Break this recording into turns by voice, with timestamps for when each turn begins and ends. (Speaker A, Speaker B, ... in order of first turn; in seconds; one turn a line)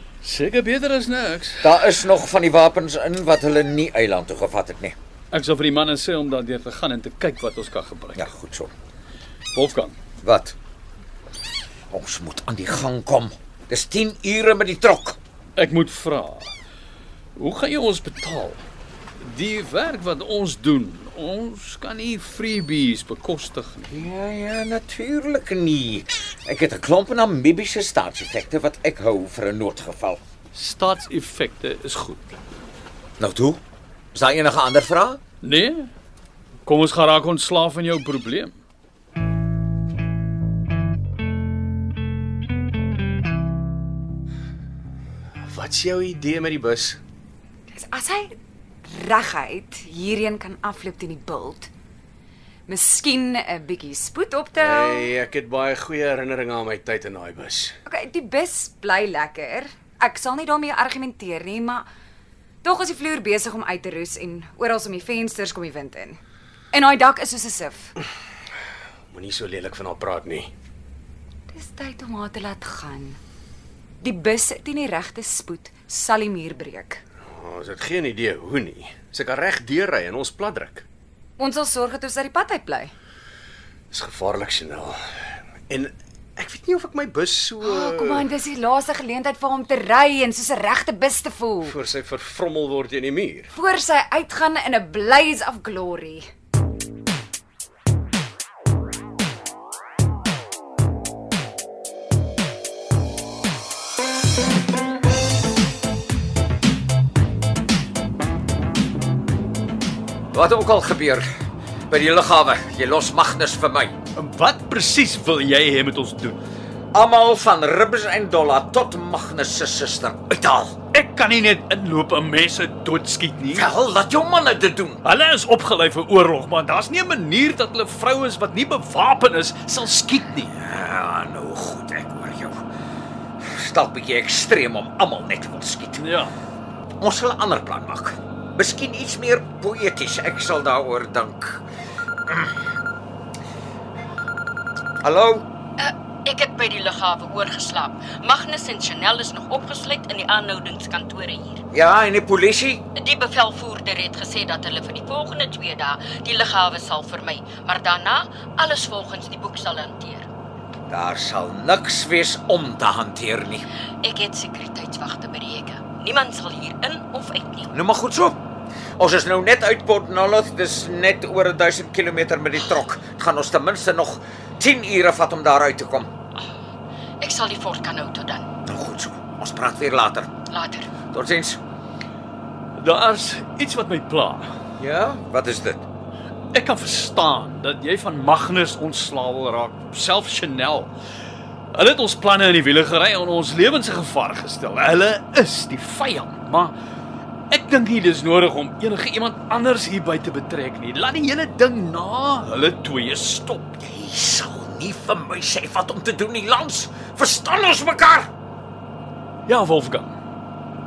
Speaker A: 0.2-1.8
Speaker B: 1.6-4.9
Speaker A: 5.3-8.2
Speaker B: 8.2-8.7
Speaker A: 9.5-9.9
Speaker B: 10.2-10.6
Speaker B: 11.9-15.2
Speaker A: 15.6-16.5
Speaker A: 17.4-18.6
Speaker A: 19.2-23.9
Speaker B: 23.9-30.2
Speaker A: 30.5-32.3
Speaker B: 33.2-33.6
Speaker B: 34.1-35.2
Speaker A: 35.4-35.9
Speaker A: 36.6-38.5
Speaker C: 45.5-47.0
Speaker D: 47.7-51.7
Speaker D: 52.7-55.1
Speaker C: 54.6-57.7
Speaker D: 57.9-61.9
Speaker D: 62.6-66.2
Speaker D: 66.7-67.9
Speaker C: 69.1-70.5
Speaker D: 71.5-73.2
Speaker D: 74.0-77.0
Speaker C: 77.3-80.8
Speaker D: 81.4-82.9
Speaker C: 83.9-85.0
Speaker C: 85.7-88.2
Speaker D: 87.6-91.8
Speaker C: 91.6-93.5
Speaker D: 93.5-96.3
Speaker B: 110.3-111.3
Speaker B: 111.9-114.0
Speaker A: 114.2-116.4
Speaker B: 116.9-120.8
Speaker A: 120.9-123.7
Speaker B: 123.5-125.0
Speaker A: 125.0-130.5
Speaker B: 130.5-132.6
Speaker B: 133.4-136.0
Speaker A: 136.0-136.3
Speaker B: 137.0-141.6
Speaker B: 142.3-142.5
Speaker B: 145.0-145.4
Speaker E: 145.8-151.6
Speaker B: 151.7-152.8
Speaker E: 152.9-160.3
Speaker B: 160.9-163.6
Speaker E: 164.0-167.7
Speaker B: 167.7-168.4
Speaker B: 169.0-176.1
Speaker E: 177.2-178.5
Speaker B: 178.7-180.3
Speaker E: 180.5-180.9
Speaker B: 181.1-181.6
Speaker A: 182.8-184.5
Speaker B: 184.8-185.8
Speaker A: 186.5-190.9
Speaker A: 191.7-196.7
Speaker A: 197.5-203.8
Speaker B: 203.8-208.3
Speaker A: 209.5-210.2